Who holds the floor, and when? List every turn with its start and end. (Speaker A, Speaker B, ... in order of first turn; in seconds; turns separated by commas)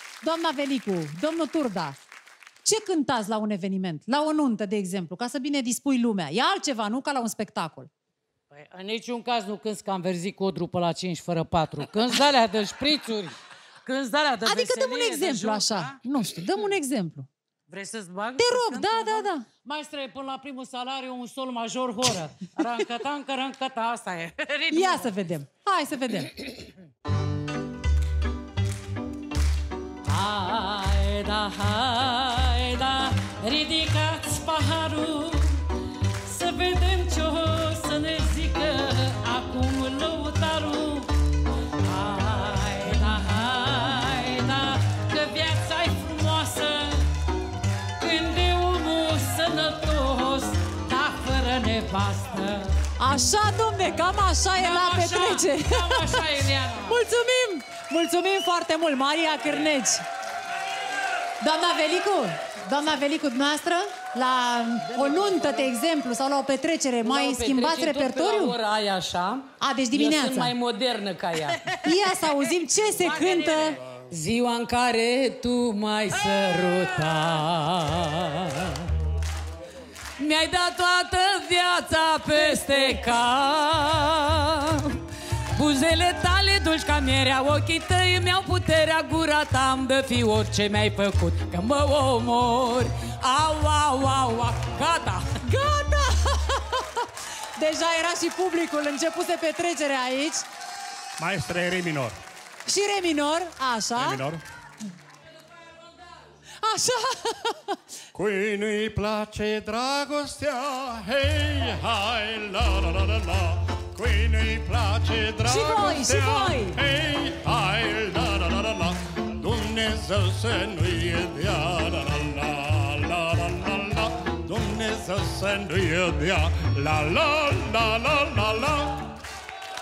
Speaker A: 0.2-2.0, Speaker A: 2.6-7.9, Speaker B: 8.5-16.0, Speaker A: 14.4-17.3, Speaker B: 17.7-25.2, Speaker A: 18.4-19.5, Speaker A: 24.7-26.4, Speaker B: 30.1-35.7, Speaker B: 36.2-41.2, Speaker B: 41.8-47.1, Speaker B: 48.0-52.8, Speaker A: 53.0-56.2, Speaker B: 54.6-57.0, Speaker A: 56.9-60.0, Speaker A: 61.4-68.6, Speaker B: 64.8-65.7, Speaker B: 67.0-71.8, Speaker A: 69.6-70.5, Speaker A: 71.7-73.8, Speaker B: 72.9-78.9, Speaker B: 80.2-95.4, Speaker A: 95.4-100.5, Speaker C: 101.2-102.2, Speaker A: 102.7-104.2, Speaker C: 104.0-104.4, Speaker A: 106.6-107.8, Speaker C: 108.1-129.1, Speaker A: 115.4-116.8